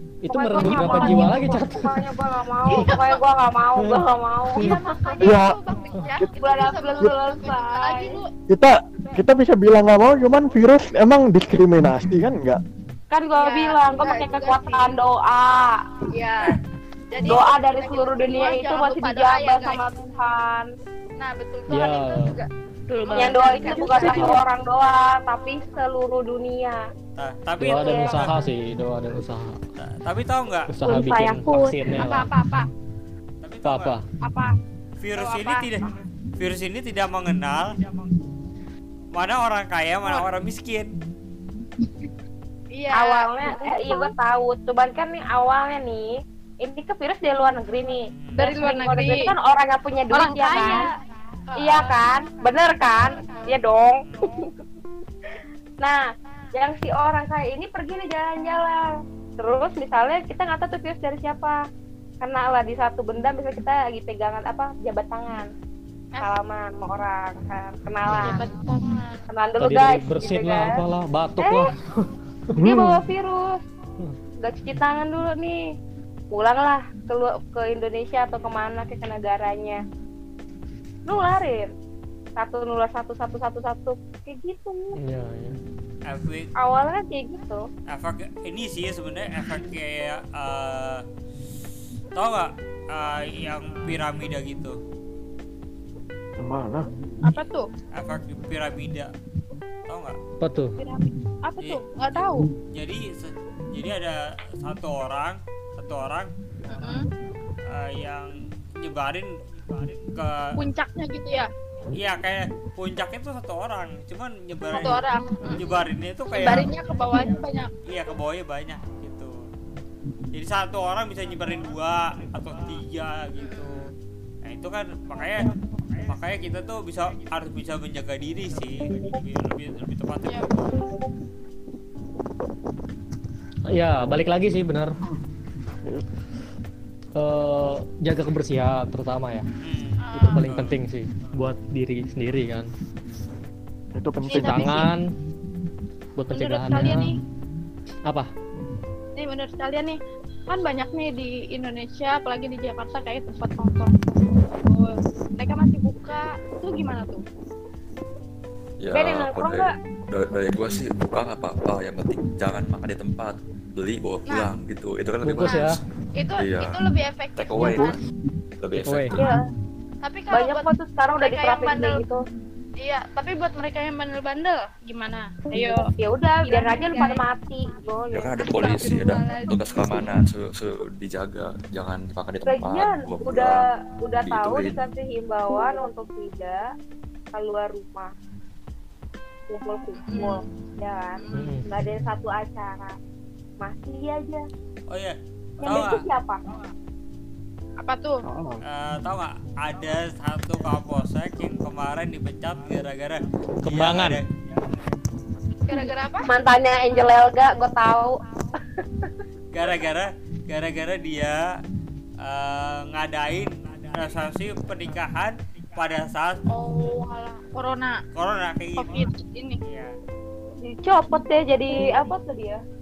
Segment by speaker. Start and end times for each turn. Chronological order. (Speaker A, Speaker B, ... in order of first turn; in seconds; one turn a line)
Speaker A: 0.2-1.9
Speaker B: 0.3-5.3
Speaker C: 0.5-1.8
Speaker C: 2.7-3.2
Speaker C: 4.6-8.3
Speaker D: 5.2-5.6
Speaker B: 6.3-8.2
Speaker D: 8.5-12.6
Speaker B: 13.1-15.8
Speaker C: 13.4-15.0
Speaker C: 16.1-16.6
Speaker C: 17.1-19.8
Speaker B: 17.2-20.7
Speaker C: 21.2-22.5
Speaker A: 21.7-22.3
Speaker E: 22.9-24.4
Speaker C: 23.0-24.4
Speaker B: 23.1-26.8
Speaker F: 27.2-28.4
Speaker A: 27.6-29.6
Speaker B: 27.8-28.2
Speaker F: 29.8-30.7
Speaker A: 30.7-32.3
Speaker E: 30.9-31.8
Speaker C: 31.9-32.7
Speaker F: 33.4-34.0
Speaker A: 33.6-34.0
Speaker C: 34.2-34.6
Speaker F: 35.0-37.8
Speaker C: 35.1-35.9
Speaker F: 39.1-40.9
Speaker C: 42.7-44.1
Speaker B: 42.9-50.9
Speaker F: 48.1-48.5
Speaker C: 48.4-49.3
Speaker C: 50.1-51.0
Speaker C: 51.5-52.1
Speaker B: 51.6-54.5
Speaker C: 53.1-53.5
Speaker F: 54.0-54.3
Speaker B: 55.8-61.6
Speaker B: 62.2-65.5
Speaker B: 66.2-68.5
Speaker A: 68.1-68.4
Speaker C: 68.2-69.2
Speaker B: 69.3-70.8
Speaker A: 69.6-72.9
Speaker B: 71.4-71.7
Speaker D: 72.6-73.0
Speaker B: 72.6-73.6
Speaker B: 74.4-75.7
Speaker B: 76.3-79.8
Speaker B: 81.1-81.7
Speaker B: 82.4-85.0
Speaker A: 85.0-85.6
Speaker F: 86.0-86.5
Speaker B: 86.6-87.7
Speaker F: 87.9-91.0
Speaker F: 92.2-94.8
Speaker D: 96.4-96.9
Speaker C: 97.2-97.7
Speaker F: 97.9-99.1
Speaker F: 99.9-100.2
Speaker A: 100.4-100.8
Speaker C: 100.8-102.5
Speaker F: 101.6-106.3
Speaker C: 106.7-107.1
Speaker F: 107.7-110.6
Speaker C: 110.6-111.5
Speaker F: 111.9-116.7
Speaker C: 114.7-115.7
Speaker C: 116.3-117.7
Speaker F: 117.9-119.4
Speaker F: 120.3-123.8
Speaker F: 124.4-130.8
Speaker C: 130.3-130.6
Speaker A: 133.7-134.9
Speaker A: 137.2-139.5
Speaker F: 139.6-140.8
Speaker C: 140.0-140.4
Speaker A: 140.2-142.7
Speaker D: 143.9-144.9
Speaker C: 144.3-144.9
Speaker A: 144.3-145.1
Speaker A: 146.2-147.1
Speaker C: 146.3-147.2
Speaker C: 149.2-157.2
Speaker G: 158.8-165.8
Speaker B: 158.9-159.7
Speaker C: 164.3-164.5
Speaker A: 165.2-165.7
Speaker C: 165.5-168.0
Speaker G: 166.4-168.0
Speaker G: 168.6-169.2
Speaker A: 168.8-169.2
Speaker B: 169.1-169.4
Speaker C: 170.0-172.0
Speaker B: 170.3-172.2
Speaker C: 172.8-175.9
Speaker B: 176.0-178.7
Speaker C: 176.4-177.2
Speaker G: 178.1-183.7
Speaker C: 178.4-180.0
Speaker B: 182.4-186.7
Speaker G: 184.2-184.8
Speaker B: 187.3-188.1
Speaker B: 189.5-193.0
Speaker C: 190.0-190.4
Speaker C: 191.2-191.6
Speaker A: 191.3-191.7
Speaker B: 193.6-194.5
Speaker F: 194.9-196.1
Speaker B: 195.6-196.4
Speaker C: 197.8-198.2
Speaker D: 198.2-198.6
Speaker F: 198.7-204.3
Speaker A: 203.6-204.2
Speaker C: 205.7-206.3
Speaker B: 205.7-209.1
Speaker F: 209.5-211.4
Speaker F: 212.2-216.4
Speaker C: 216.5-218.0
Speaker F: 218.1-219.1
Speaker C: 218.8-219.6
Speaker F: 219.7-219.9
Speaker B: 220.6-222.6